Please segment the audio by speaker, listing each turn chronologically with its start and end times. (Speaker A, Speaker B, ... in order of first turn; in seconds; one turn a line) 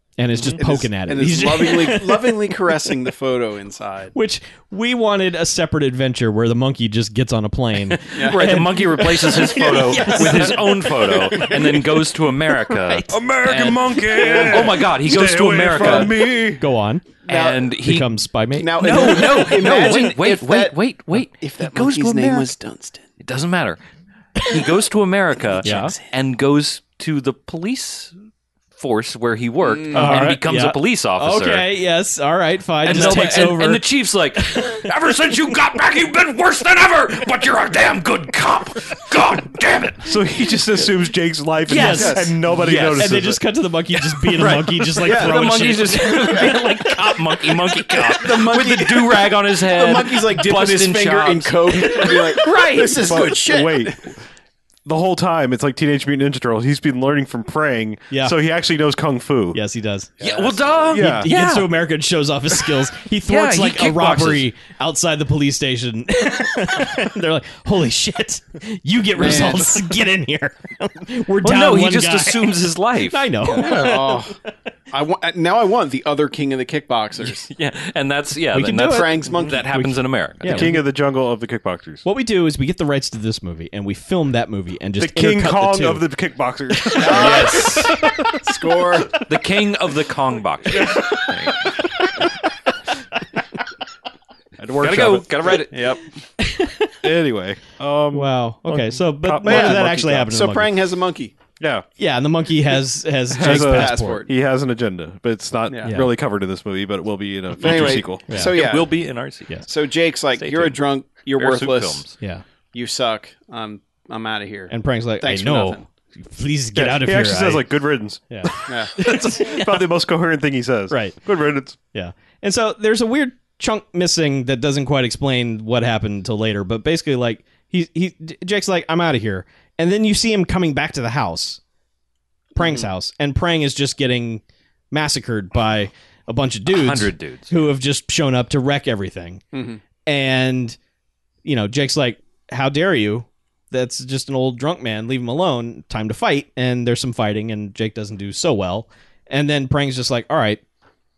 Speaker A: 0.2-2.9
Speaker B: 0.4-4.1
Speaker A: 4.1-11.8
Speaker C: 8.0-16.1
Speaker B: 8.1-8.6
Speaker A: 12.7-13.2
Speaker D: 13.1-16.6
Speaker B: 14.2-14.7
Speaker B: 15.7-16.1
Speaker A: 16.5-17.1
Speaker B: 17.2-17.7
Speaker C: 17.2-18.1
Speaker A: 17.8-19.9
Speaker B: 18.6-23.0
Speaker C: 18.8-22.5
Speaker C: 23.2-23.8
Speaker C: 24.4-28.1
Speaker B: 25.6-26.1
Speaker A: 25.6-25.9
Speaker C: 28.8-31.6
Speaker B: 29.6-30.2
Speaker A: 29.9-34.9
Speaker D: 30.0-30.4
Speaker C: 32.8-40.1
Speaker D: 40.0-43.4
Speaker A: 41.7-48.4
Speaker B: 41.8-42.3
Speaker C: 42.5-43.2
Speaker C: 44.2-52.4
Speaker B: 45.0-46.6
Speaker B: 48.0-54.0
Speaker A: 51.8-53.2
Speaker D: 53.0-54.1
Speaker D: 54.9-59.6
Speaker A: 59.5-60.1
Speaker B: 60.2-60.6
Speaker C: 60.2-61.7
Speaker D: 60.9-61.3
Speaker A: 60.9-74.5
Speaker C: 62.5-64.5
Speaker B: 69.1-69.9
Speaker C: 71.4-73.5
Speaker B: 73.5-74.4
Speaker B: 74.9-77.5
Speaker C: 77.5-80.8
Speaker A: 78.5-80.8
Speaker B: 78.8-79.6
Speaker D: 80.4-82.0
Speaker A: 82.0-86.1
Speaker D: 85.0-88.4
Speaker A: 86.9-88.4
Speaker B: 87.0-87.8
Speaker C: 87.0-88.0
Speaker B: 88.4-89.2
Speaker C: 89.2-91.7
Speaker D: 90.8-91.1
Speaker A: 90.8-91.2
Speaker A: 92.0-92.3
Speaker D: 94.6-95.5
Speaker C: 94.8-96.0
Speaker B: 95.4-96.0
Speaker A: 96.4-97.0
Speaker D: 97.0-100.3
Speaker A: 98.1-100.8
Speaker B: 99.4-101.3
Speaker D: 101.6-101.8
Speaker A: 102.0-104.2
Speaker D: 103.3-108.3
Speaker B: 103.3-104.3
Speaker B: 105.7-105.9
Speaker A: 105.9-106.1
Speaker B: 107.5-109.0
Speaker C: 107.6-109.5
Speaker B: 109.7-112.1
Speaker C: 110.3-112.1
Speaker B: 112.7-115.8
Speaker A: 114.7-117.7
Speaker D: 116.7-121.8
Speaker A: 118.3-119.9
Speaker B: 118.7-118.9
Speaker A: 120.9-121.2
Speaker A: 121.9-131.6
Speaker A: 132.6-139.4
Speaker B: 132.6-132.9
Speaker C: 136.7-137.5
Speaker B: 139.5-139.8
Speaker A: 140.1-140.8
Speaker A: 141.4-150.6